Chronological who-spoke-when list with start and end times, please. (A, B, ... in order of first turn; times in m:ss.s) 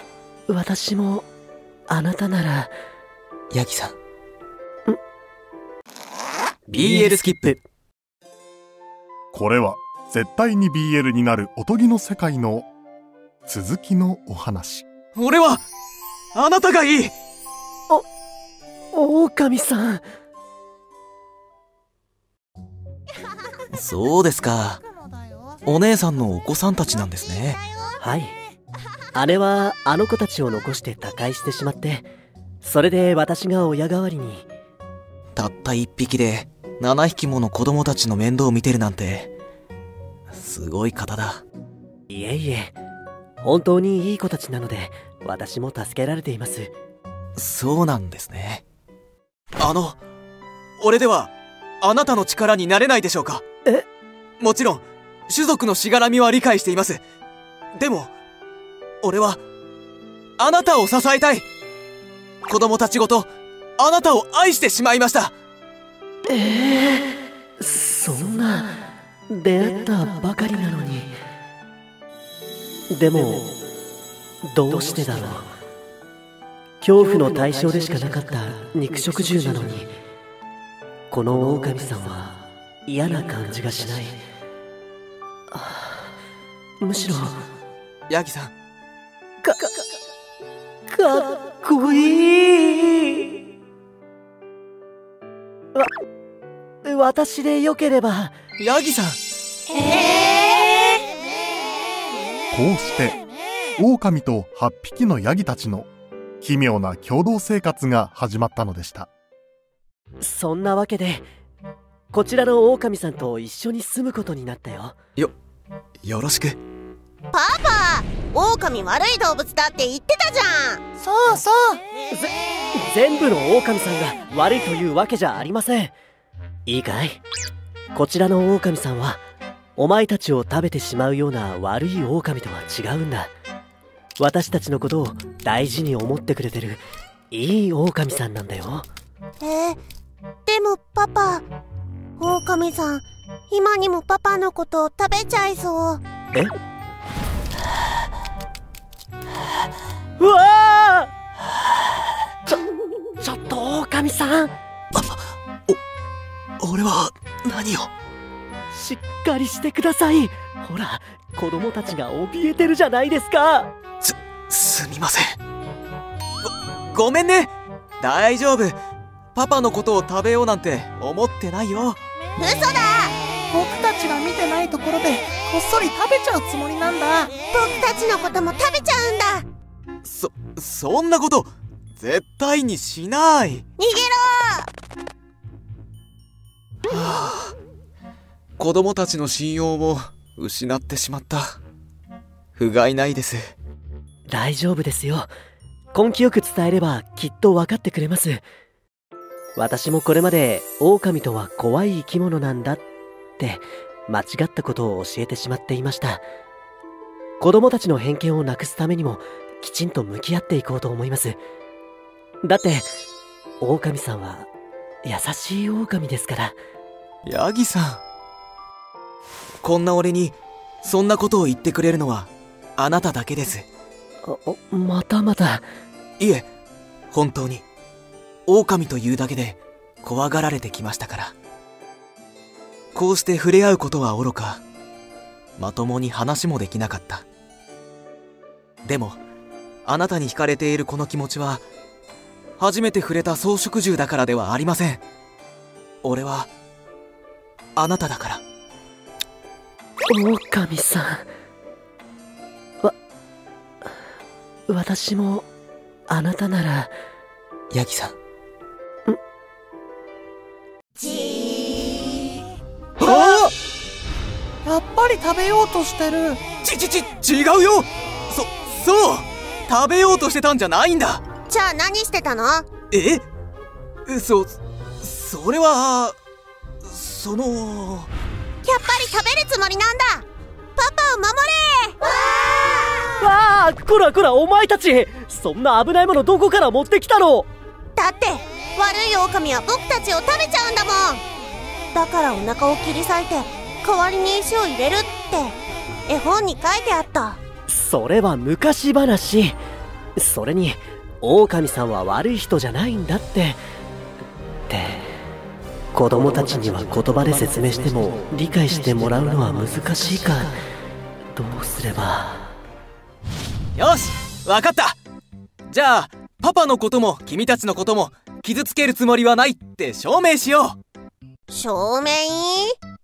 0:00.5-0:01.3 A
0:01.9-0:02.7 A
0:03.5-0:04.0 B
0:06.7-0:07.6 A
0:06.7-0:07.6 B
0:09.3-0:12.7 C
0:13.4-0:14.8 C
0:15.2-0:15.6 B
0:16.3-0:17.1 B
0:18.9-0:20.0 A
0:23.7-0:24.8 B
0:25.0-0:25.6 D
0:25.6-0:27.6 B
0:28.0-0:28.3 A
0:29.1-0:32.1 A
0:32.6-0:34.4 A
0:35.3-0:39.3 B
0:40.3-0:41.4 B
0:42.1-0:42.8 A
0:43.4-0:46.7 A
0:47.4-0:48.6 B
0:49.6-0:50.0 B
0:50.8-0:53.4 B
0:54.4-0:57.0 B
0:57.8-0:58.1 B
0:59.0-0:59.4 B
1:00.4-1:01.4 B
1:02.4-1:05.3 B
1:06.3-1:08.8 A
1:09.3-1:11.1 A
1:12.9-1:13.5 A
1:14.4-1:15.5 A
1:16.8-1:19.9 A
1:21.1-1:24.2 A
1:25.5-1:26.0 A
1:26.8-1:27.4 A
1:28.1-1:28.5 B
1:30.9-1:33.4 A
1:36.8-1:38.4 A
1:38.6-1:39.2 B
1:42.5-1:43.2 C
1:43.8-1:45.9 C
1:46.4-1:49.1 C
1:50.2-1:51.3 A
1:52.1-1:55.0 A
1:56.0-1:56.6 B
1:57.3-2:00.8 E
2:01.0-2:01.8 D
2:02.1-2:05.9 A
2:06.6-2:07.2 A
2:07.9-2:09.2 A
2:09.8-2:13.3 A
2:14.2-2:18.8 A
2:19.4-2:19.8 E
2:20.4-2:21.5 E
2:22.2-2:26.0 E
2:30.2-2:31.1 A
2:33.2-2:34.5 A
2:34.9-2:35.8 B
2:36.6-2:37.9 B
2:38.7-2:43.7 A
2:44.0-2:45.4 B
2:46.4-2:48.8 B
2:49.3-2:52.0 B
2:52.4-2:53.2 E
2:53.5-2:57.3 D
2:57.5-2:59.5 E
3:00.0-3:03.6 B
3:03.8-3:04.7 E
3:06.9-3:07.6 B
3:08.6-3:11.6 B
3:12.5-3:13.5 B
3:14.3-3:15.3 A
3:15.9-3:18.4 A
3:19.6-3:22.8 A
3:23.4-3:26.2 A
3:27.4-3:31.4 A
3:32.4-3:32.9 A
3:33.6-3:34.5 A
3:35.0-3:36.6 A
3:37.2-3:38.0 B
3:39.6-3:43.6 B
3:44.2-3:45.6 A
3:46.2-3:46.5 B
3:47.1-3:47.6 B
3:48.5-3:51.3 B
3:52.9-3:54.6 B
3:55.6-3:57.2 B
3:58.8-3:59.2 B
3:59.8-4:01.6 B
4:02.6-4:05.0 B
4:06.0-4:06.5 B
4:07.8-4:08.4 B
4:10.1-4:11.2 A
4:14.7-4:15.5 A
4:16.1-4:16.9 A
4:17.7-4:18.2 B
4:21.0-4:22.0 E
4:23.0-4:23.5 D
4:23.0-4:23.5 B
4:24.6-4:26.4 D
4:26.6-4:31.2 B
4:31.4-4:32.7 E
4:32.9-4:33.2 B
4:34.1-4:36.2 B
4:36.8-4:38.1 B
4:38.6-4:43.2 E
4:43.2-4:47.5 A
4:48.0-4:51.2 E
4:51.9-4:57.4 E
4:57.7-4:59.6 A
5:00.2-5:03.6 A
5:04.7-5:05.0 A
5:05.9-5:10.6 A
5:11.3-5:12.4 A
5:13.7-5:15.0 B
5:15.7-5:20.8 B
5:21.5-5:22.8 E